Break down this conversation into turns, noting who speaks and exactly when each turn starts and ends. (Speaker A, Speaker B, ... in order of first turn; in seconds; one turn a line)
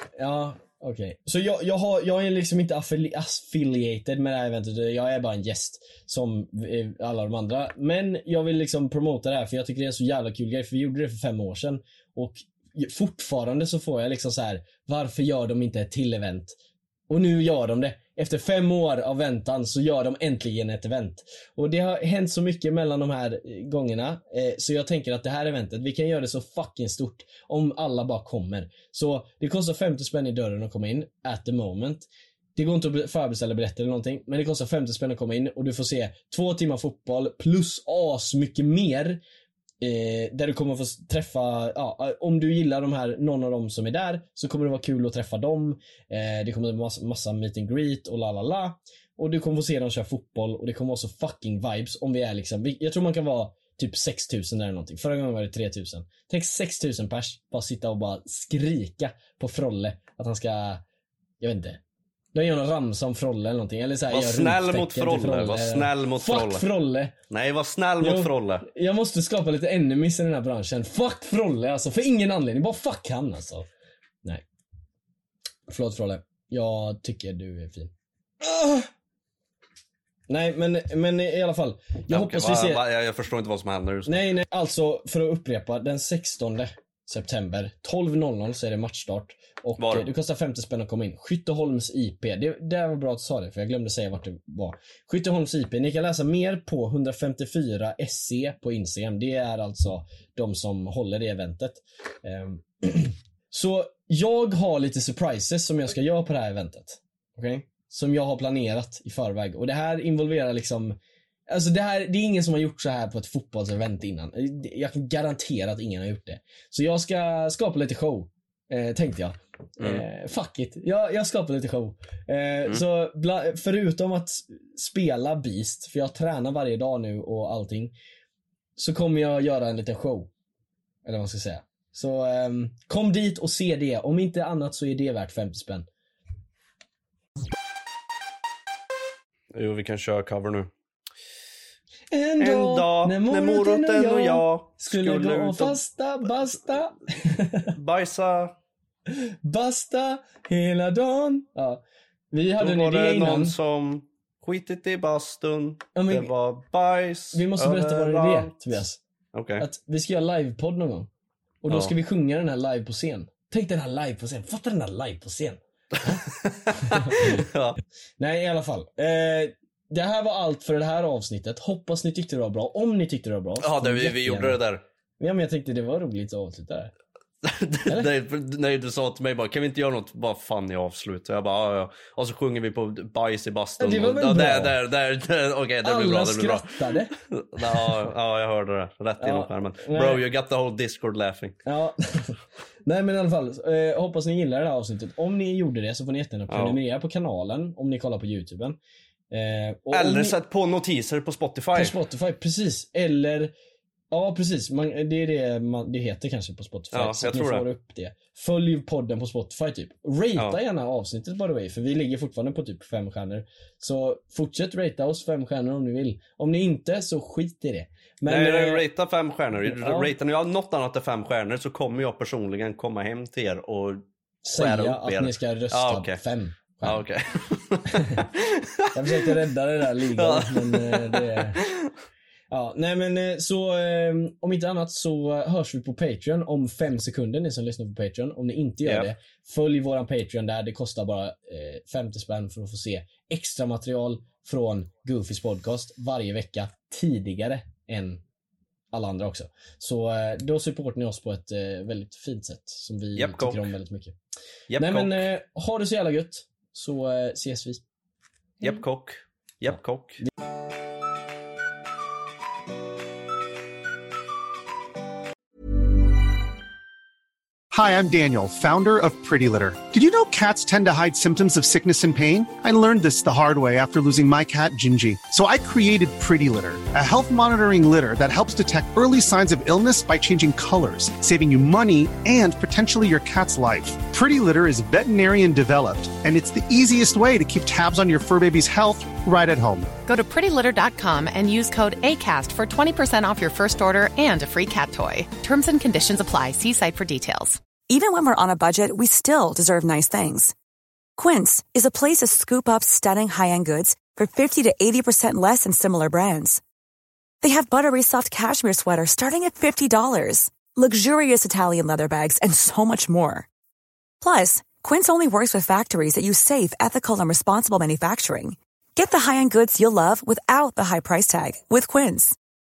Speaker A: 0.1-16.5
Speaker A: 17.1-39.2
Speaker A: 39.8-60.8
Speaker A: 61.4-61.8
Speaker A: 62.3-67.1
Speaker B: 64.1-66.7
Speaker B: 67.3-68.6
Speaker A: 68.0-73.7
Speaker A: 75.7-78.9
Speaker A: 80.3-82.8
Speaker B: 82.1-84.2
Speaker A: 84.0-111.0
Speaker B: 89.8-90.1
Speaker A: 111.5-127.9
Speaker B: 119.8-120.0
Speaker A: 128.8-130.3
Speaker A: 131.0-135.8
Speaker B: 139.5-140.7
Speaker A: 142.1-147.7
Speaker B: 142.4-145.8
Speaker B: 147.7-148.5
Speaker A: 149.1-153.5
Speaker B: 152.6-158.6
Speaker A: 155.9-156.3
Speaker A: 157.3-159.0
Speaker B: 159.3-159.6
Speaker A: 159.6-161.1
Speaker A: 161.6-166.2
Speaker B: 166.1-167.8
Speaker A: 166.8-167.4
Speaker A: 168.2-174.6
Speaker B: 173.6-174.8
Speaker A: 175.2-176.9
Speaker B: 177.4-191.6
Speaker A: 183.8-184.8
Speaker A: 185.8-187.1
Speaker A: 189.2-190.2
Speaker A: 191.7-198.8
Speaker B: 196.5-196.8
Speaker A: 199.3-200.4
Speaker B: 199.9-201.9
Speaker A: 201.7-203.5
Speaker A: 204.1-218.9
Speaker B: 206.9-207.7
Speaker B: 218.2-226.2
Speaker A: 219.6-220.1
Speaker A: 224.4-227.0
Speaker B: 226.8-229.3
Speaker A: 228.9-231.6
Speaker B: 230.1-231.9
Speaker A: 232.5-248.2
Speaker B: 238.8-239.1
Speaker A: 248.9-254.2
Speaker B: 253.1-253.7
Speaker B: 254.7-255.2
Speaker A: 254.8-257.8
Speaker B: 258.6-260.2
Speaker C: 267.7-289.9
Speaker D: 290.1-297.6
Speaker E: 297.9-300.5
Speaker E: 301.2-306.6
Speaker E: 307.4-313.5
Speaker E: 314.2-322.3